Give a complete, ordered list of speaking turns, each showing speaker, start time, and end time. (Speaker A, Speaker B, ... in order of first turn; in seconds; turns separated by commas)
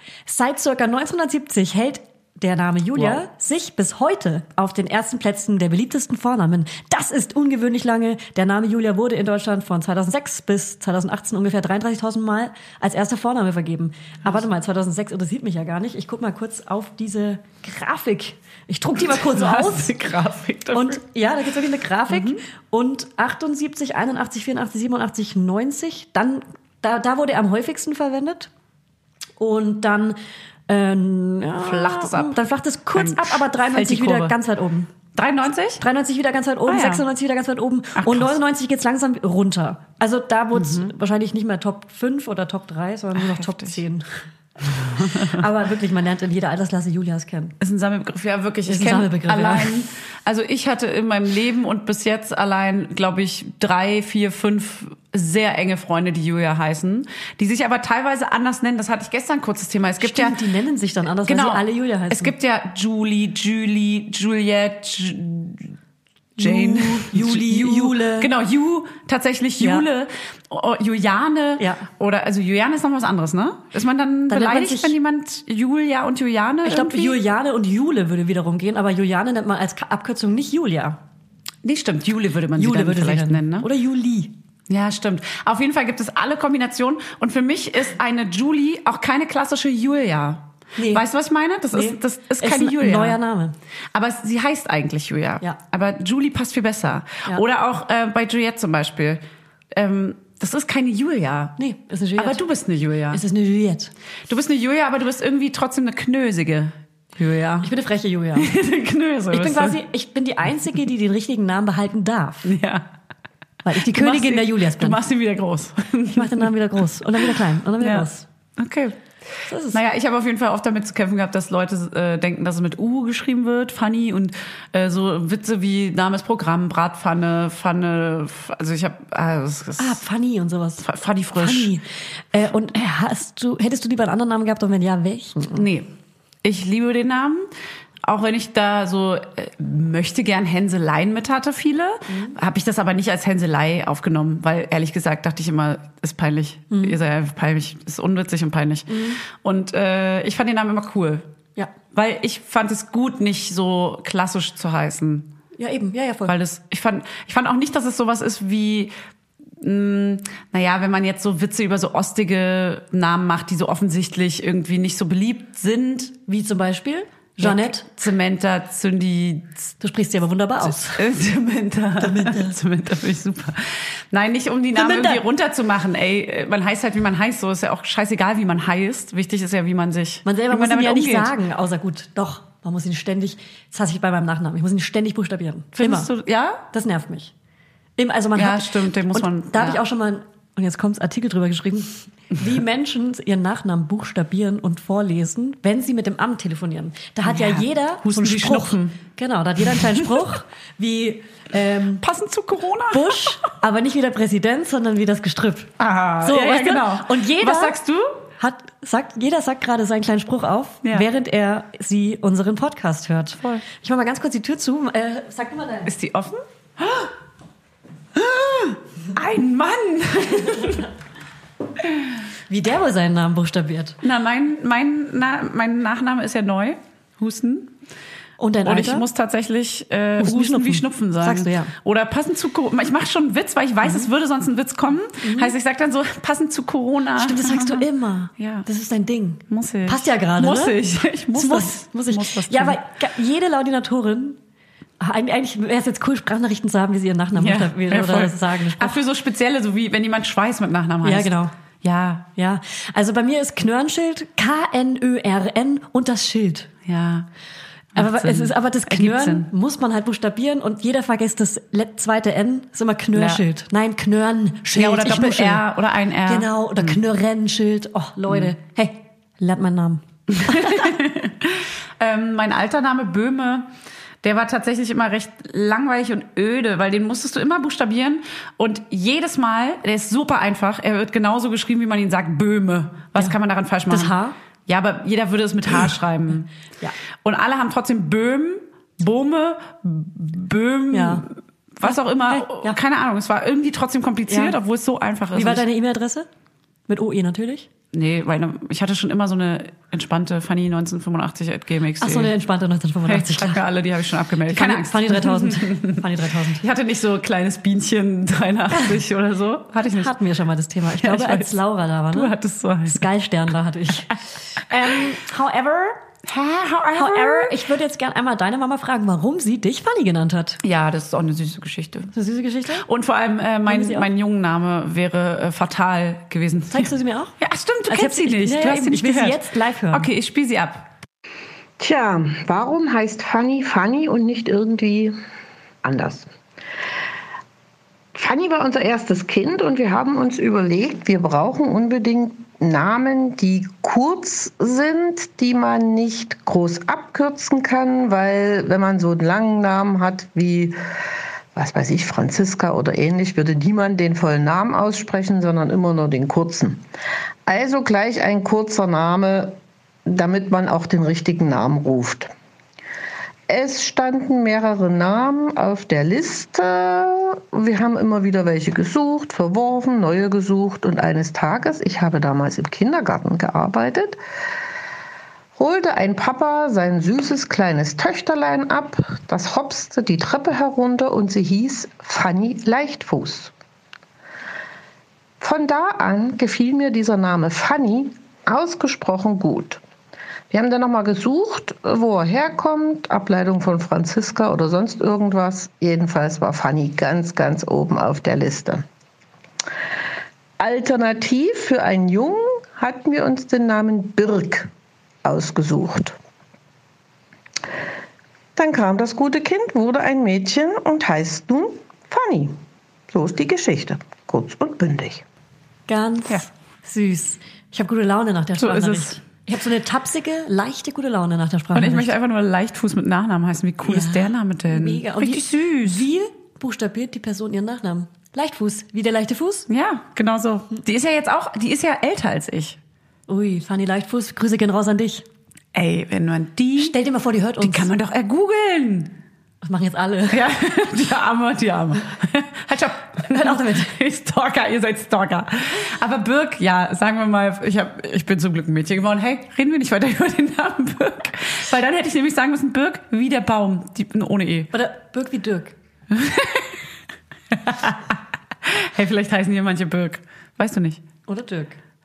Speaker A: 0.2-19.9, Speaker B: 19.0-21.0, Speaker A: 20.7-28.5, Speaker B: 22.1-22.4, Speaker A: 29.4-34.9, Speaker B: 31.6-32.4, Speaker B: 32.9-34.4, Speaker B: 35.1-35.8, Speaker A: 35.8-44.0, Speaker B: 36.6-37.0, Speaker B: 38.0-38.4, Speaker B: 40.5-40.9, Speaker B: 43.1-43.8, Speaker A: 44.7-47.5, Speaker B: 45.0-45.2, Speaker B: 47.6-60.4, Speaker A: 48.7-49.7, Speaker A: 60.0-62.3, Speaker B: 61.2-65.7, Speaker A: 66.4-68.3, Speaker B: 66.4-77.2, Speaker A: 69.6-69.8, Speaker A: 71.6-71.8, Speaker A: 74.3-74.9, Speaker A: 76.6-81.0, Speaker B: 81.6-83.7, Speaker A: 82.6-84.3, Speaker B: 84.7-93.2, Speaker A: 90.8-91.0, Speaker A: 91.7-93.5, Speaker B: 93.9-99.2, Speaker B: 99.7-101.5, Speaker A: 101.6-102.4, Speaker B: 102.2-103.2, Speaker A: 103.1-103.9, Speaker B: 104.3-107.7, Speaker A: 107.6-108.5, Speaker B: 108.4-109.8, Speaker A: 109.3-112.5, Speaker B: 112.4-112.8, Speaker A: 113.6-115.0, Speaker B: 113.8-116.5, Speaker A: 116.1-118.2, Speaker B: 117.2-119.0, Speaker A: 119.5-119.8, Speaker B: 119.7-130.0, Speaker A: 129.8-135.6, Speaker B: 130.8-131.7, Speaker B: 135.5-135.9, Speaker B: 136.4-137.5, Speaker B: 138.0-151.2, Speaker A: 142.1-142.3, Speaker A: 146.7-147.0, Speaker A: 148.9-149.2, Speaker B: 151.9-155.3, Speaker A: 155.6-156.3, Speaker B: 156.2-158.9, Speaker B: 159.6-166.2, Speaker A: 166.3-167.8, Speaker B: 167.4-169.7, Speaker A: 169.8-171.0, Speaker B: 170.6-181.3, Speaker A: 172.0-172.6, Speaker A: 174.7-175.2, Speaker A: 180.2-186.1, Speaker B: 185.8-186.6, Speaker A: 186.7-187.3, Speaker A: 188.0-202.0, Speaker B: 188.3-189.8, Speaker B: 197.2-198.9, Speaker B: 199.7-200.0, Speaker B: 202.0-203.4, Speaker A: 202.9-205.7, Speaker B: 205.8-208.2, Speaker A: 206.2-207.8, Speaker A: 208.4-215.9, Speaker B: 215.9-217.1, Speaker B: 218.1-220.8, Speaker A: 220.4-220.8, Speaker A: 222.5-224.0, Speaker B: 224.0-227.7, Speaker A: 228.4-229.0, Speaker B: 228.6-237.8, Speaker A: 230.2-231.7, Speaker A: 233.8-234.1, Speaker A: 235.2-235.5, Speaker A: 237.2-240.8, Speaker B: 238.4-238.7, Speaker B: 239.5-242.8, Speaker A: 241.3-244.4, Speaker A: 245.0-248.9, Speaker B: 247.4-252.3, Speaker A: 251.0-251.5, Speaker A: 252.3-256.7, Speaker B: 256.9-257.3, Speaker B: 257.9-259.5, Speaker A: 257.9-265.6, Speaker B: 263.1-263.4, Speaker B: 264.7-267.0, Speaker A: 266.3-270.9, Speaker B: 270.3-273.7, Speaker B: 274.2-284.1, Speaker A: 283.9-284.3, Speaker B: 284.7-286.5, Speaker B: 287.2-295.6, Speaker A: 290.9-291.2, Speaker A: 291.8-292.8, Speaker A: 294.3-294.5, Speaker A: 295.3-296.3, Speaker A: 296.9-297.7, Speaker B: 297.9-302.3, Speaker A: 302.0-303.6, Speaker B: 303.0-306.0, Speaker A: 304.5-306.6, Speaker B: 306.6-310.1, Speaker A: 309.8-312.3, Speaker B: 311.0-311.6, Speaker B: 312.1-313.1, Speaker A: 312.9-316.0, Speaker B: 316.2-317.6, Speaker A: 316.9-320.6, Speaker B: 320.6-322.1, Speaker A: 322.1-322.9, Speaker B: 322.8-330.9, Speaker A: 323.6-324.1, Speaker A: 326.7-327.3, Speaker A: 327.9-330.1, Speaker C: 331.8-335.2, Speaker C: 335.8-336.3, Speaker C: 338.1-350.8, Speaker C: 351.5-356.8, Speaker C: 357.4-362.3, Speaker C: 363.5-374.2, Speaker C: 375.6-383.5, Speaker C: 385.4-389.8, Speaker C: 390.5-398.8, Speaker C: 400.6-404.7, Speaker C: 405.2-406.1, Speaker C: 408.6-412.6, Speaker C: 413.1-415.2, Speaker A: 415.9-422.1, Speaker B: 418.6-419.2, Speaker B: 421.7-426.0, Speaker A: 423.8-429.7, Speaker B: 429.7-432.8, Speaker A: 433.3-435.2, Speaker B: 435.7-436.9, Speaker A: 436.8-437.9, Speaker B: 437.6-439.1, Speaker A: 439.6-440.4, Speaker B: 440.3-454.7, Speaker A: 443.2-443.9, Speaker A: 454.7-455.7, Speaker B: 456.1-456.7, Speaker B: 457.5-458.1, Speaker B: 458.6-461.0, Speaker A: 461.3-461.8